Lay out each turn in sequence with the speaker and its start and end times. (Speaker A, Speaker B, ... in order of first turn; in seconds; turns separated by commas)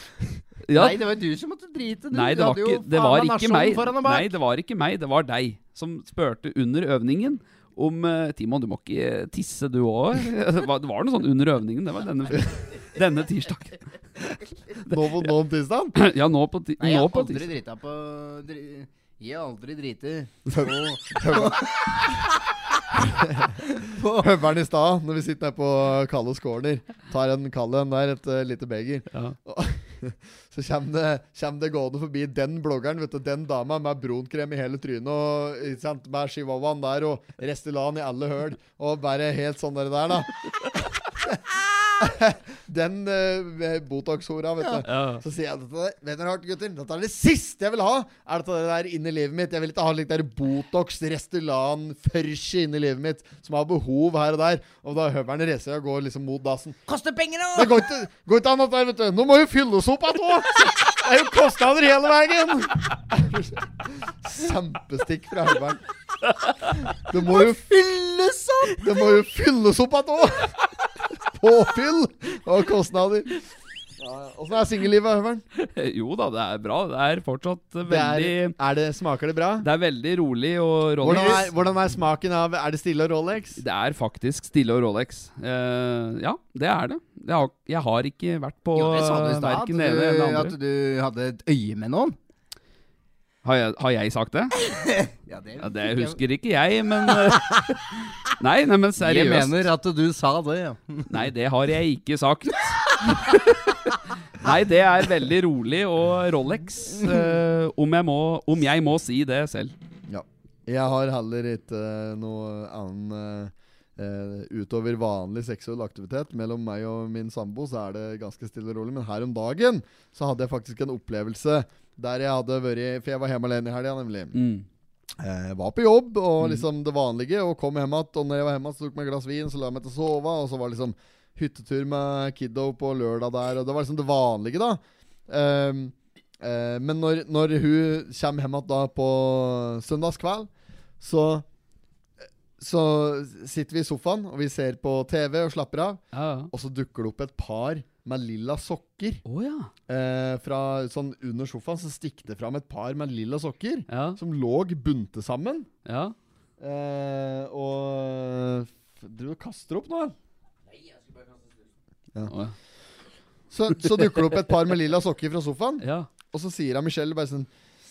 Speaker A: 0.6-1.0, Speaker B: 0.7-4.3, Speaker A: 2.1-13.8, Speaker A: 14.8-15.3, Speaker C: 14.8-16.0, Speaker A: 15.9-17.5, Speaker B: 16.8-22.2, Speaker C: 20.5-21.9, Speaker C: 23.0-56.8, Speaker B: 23.6-24.3, Speaker A: 44.8-45.2, Speaker B: 56.9-57.8, Speaker C: 57.5-65.8, Speaker C: 67.0-67.7, Speaker B: 67.2-68.8, Speaker C: 68.7-70.6, Speaker C: 71.1-73.4, Speaker C: 74.0-75.4, Speaker A: 75.5-78.5, Speaker C: 77.9-79.7, Speaker A: 79.6-81.5, Speaker C: 81.0-83.6, Speaker A: 83.6-90.5, Speaker B: 88.7-92.2, Speaker A: 93.4-94.5, Speaker B: 94.6-96.2, Speaker A: 95.6-99.7, Speaker B: 97.1-97.6, Speaker B: 99.0-101.1, Speaker A: 101.1-109.7, Speaker C: 110.1-124.3, Speaker A: 124.3-124.7, Speaker C: 125.2-141.4, Speaker A: 126.4-126.6, Speaker C: 142.6-149.2, Speaker A: 146.1-146.5, Speaker A: 149.2-149.7, Speaker C: 149.9-155.7, Speaker A: 153.9-154.2, Speaker A: 155.8-156.1, Speaker C: 156.6-160.1, Speaker B: 160.7-161.6, Speaker A: 162.3-162.5, Speaker C: 163.5-167.5, Speaker A: 165.8-166.1